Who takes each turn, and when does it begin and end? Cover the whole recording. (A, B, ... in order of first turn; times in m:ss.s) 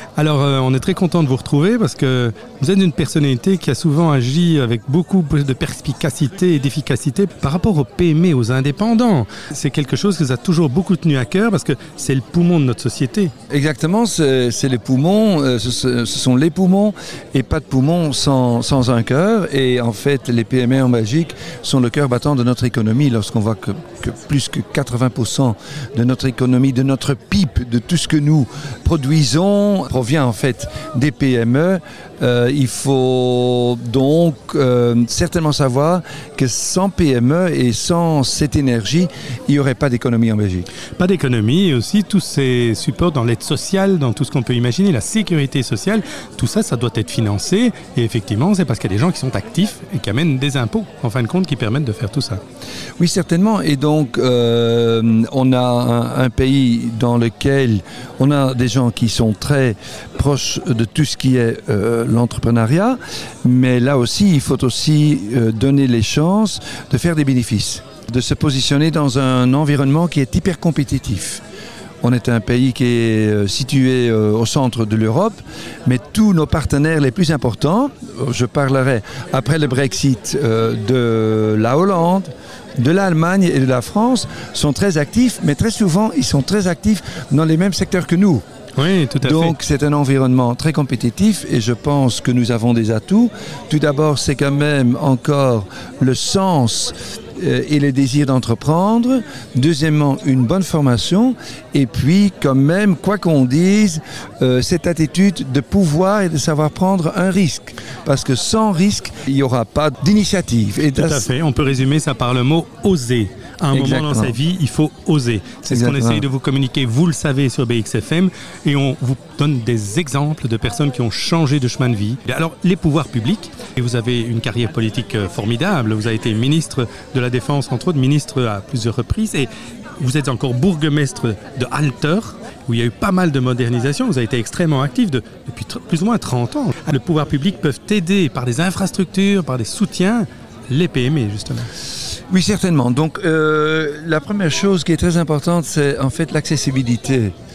0:00.2-0:13.3 A
0:13.5-0:40.7 B
0:41.0-0:52.4 A
0:53.0-1:11.4 B
1:12.0-1:28.4 B
1:28.8-1:29.6 A
1:29.2-1:51.3 B
1:50.9-2:09.5 A
1:53.7-1:54.4 B
1:55.7-1:56.2 B
2:10.0-2:21.7 A
2:22.3-2:27.3 B